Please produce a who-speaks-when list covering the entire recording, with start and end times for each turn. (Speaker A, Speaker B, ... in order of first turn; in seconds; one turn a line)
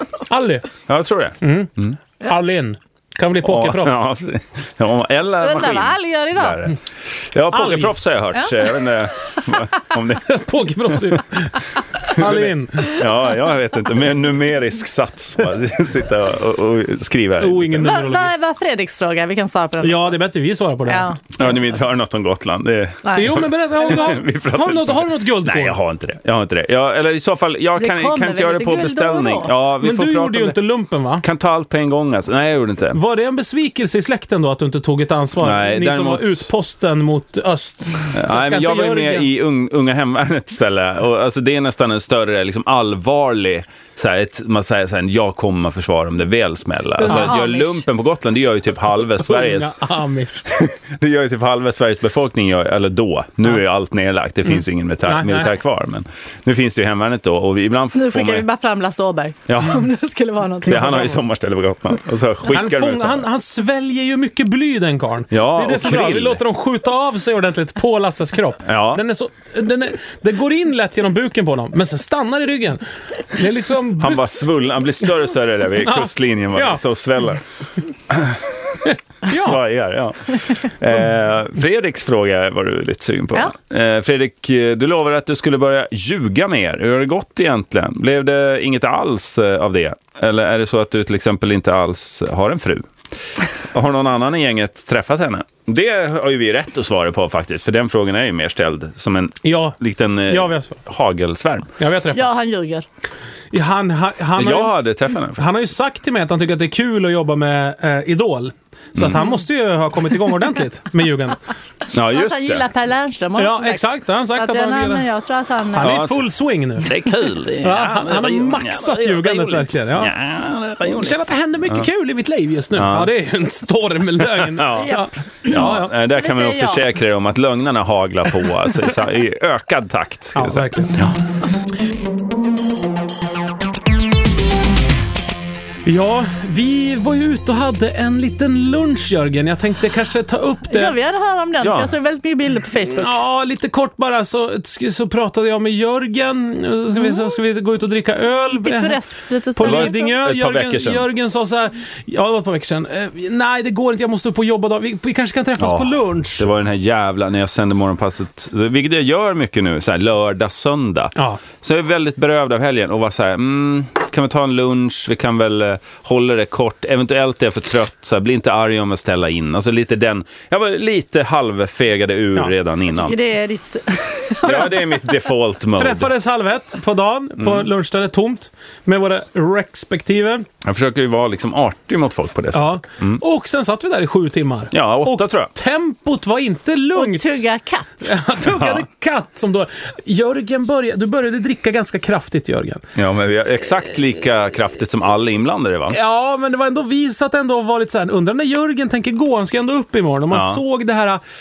Speaker A: 0.2-0.7
Speaker B: 0.9-2.0
Speaker A: 1.4-1.7
Speaker A: 2.2-4.0
Speaker B: 3.4-10.4
Speaker C: 5.4-6.6
Speaker A: 7.5-8.0
Speaker A: 10.3-13.0
Speaker B: 12.0-17.9
Speaker A: 17.4-18.3
Speaker C: 17.8-20.2
Speaker A: 19.8-21.1
Speaker C: 20.9-21.2
Speaker B: 21.3-30.6
Speaker C: 23.0-23.4
Speaker A: 23.1-25.8
Speaker C: 27.8-29.5
Speaker A: 29.8-31.2
Speaker B: 31.2-33.0
Speaker A: 32.9-39.3
Speaker B: 35.4-36.5
Speaker B: 38.1-49.8
Speaker C: 47.0-47.9
Speaker A: 47.1-47.3
Speaker A: 49.2-50.5
Speaker B: 50.5-58.5
Speaker A: 54.5-55.5
Speaker C: 57.9-61.2
Speaker B: 59.5-59.9
Speaker B: 60.6-63.3
Speaker A: 60.8-61.1
Speaker A: 62.5-74.2
Speaker B: 65.3-66.4
Speaker B: 68.7-69.0
Speaker B: 74.0-77.4
Speaker A: 75.8-76.8
Speaker B: 78.1-92.9
Speaker A: 78.8-79.6
Speaker B: 93.6-101.7
Speaker A: 99.4-100.8
Speaker A: 101.8-102.3
Speaker C: 102.1-102.9
Speaker A: 103.5-104.8
Speaker B: 104.4-105.7
Speaker A: 105.4-111.4
Speaker B: 109.0-109.3
Speaker B: 111.9-112.7
Speaker C: 112.0-116.0
Speaker A: 113.4-115.1
Speaker A: 115.7-117.0
Speaker B: 115.8-116.3
Speaker B: 116.8-121.8
Speaker A: 117.6-120.2
Speaker A: 121.0-125.9
Speaker B: 122.8-123.1
Speaker B: 124.2-131.2
Speaker C: 124.7-126.8
Speaker A: 130.3-131.1
Speaker A: 135.8-141.0
Speaker C: 140.7-143.2
Speaker B: 141.6-141.9
Speaker A: 143.0-149.0
Speaker C: 148.6-150.2
Speaker A: 149.5-156.5
Speaker B: 149.6-151.1
Speaker B: 155.6-173.2
Speaker A: 161.2-161.4
Speaker C: 172.9-175.1
Speaker B: 174.4-176.1
Speaker A: 175.8-180.5
Speaker B: 180.6-183.2
Speaker A: 182.5-187.4
Speaker B: 184.7-185.5
Speaker C: 186.9-188.1
Speaker A: 188.0-192.8
Speaker B: 188.5-188.8
Speaker B: 193.0-196.0
Speaker A: 195.9-201.2
Speaker B: 200.3-200.6